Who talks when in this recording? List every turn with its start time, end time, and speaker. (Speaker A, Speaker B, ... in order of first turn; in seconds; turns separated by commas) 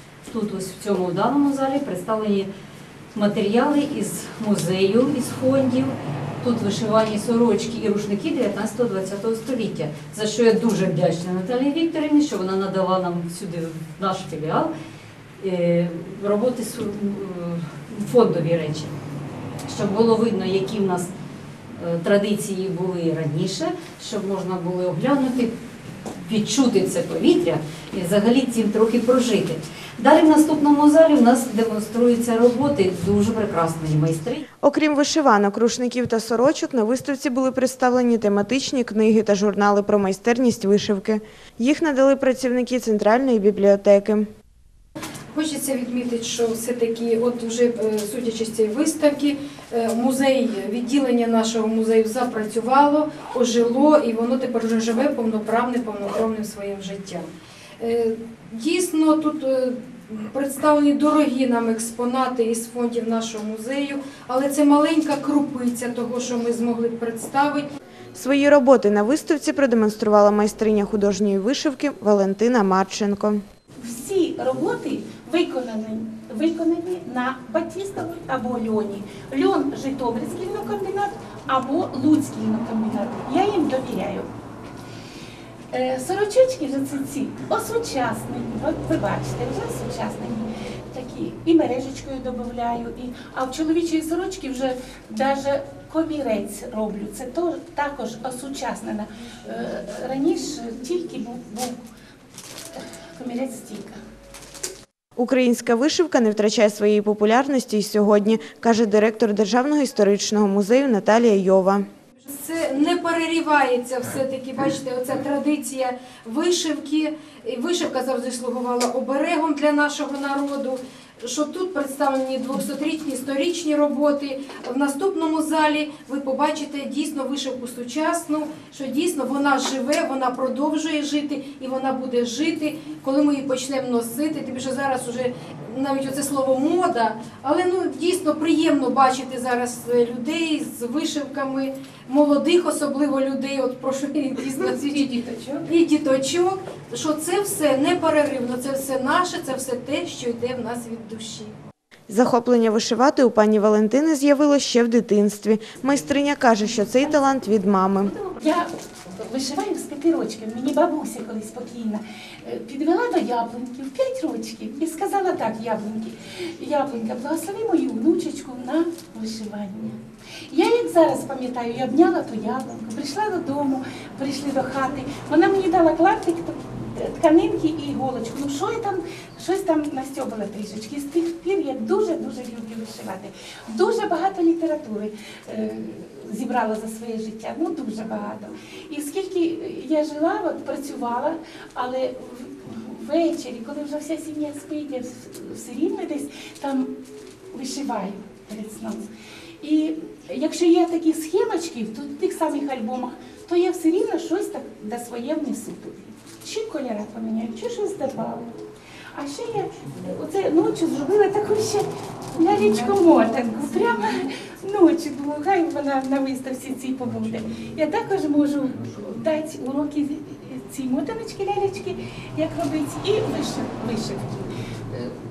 Speaker A: 0.3-2.5, Speaker A: 3.1-14.7, Speaker A: 15.4-18.9, Speaker A: 19.6-21.1, Speaker A: 21.7-25.5, Speaker A: 26.2-34.4, Speaker B: 34.6-44.3, Speaker C: 45.3-67.7, Speaker B: 68.1-73.4, Speaker D: 73.8-84.3, Speaker D: 85.7-101.8, Speaker D: 102.8-104.0, Speaker B: 105.2-111.8, Speaker C: 112.3-145.1, Speaker D: 144.8-145.7, Speaker C: 145.7-151.5, Speaker B: 152.1-158.1, Speaker A: 158.0-158.4, Speaker D: 158.4-170.0, Speaker D: 170.5-196.9, Speaker D: 197.5-199.1, Speaker D: 199.6-208.5, Speaker D: 209.1-225.1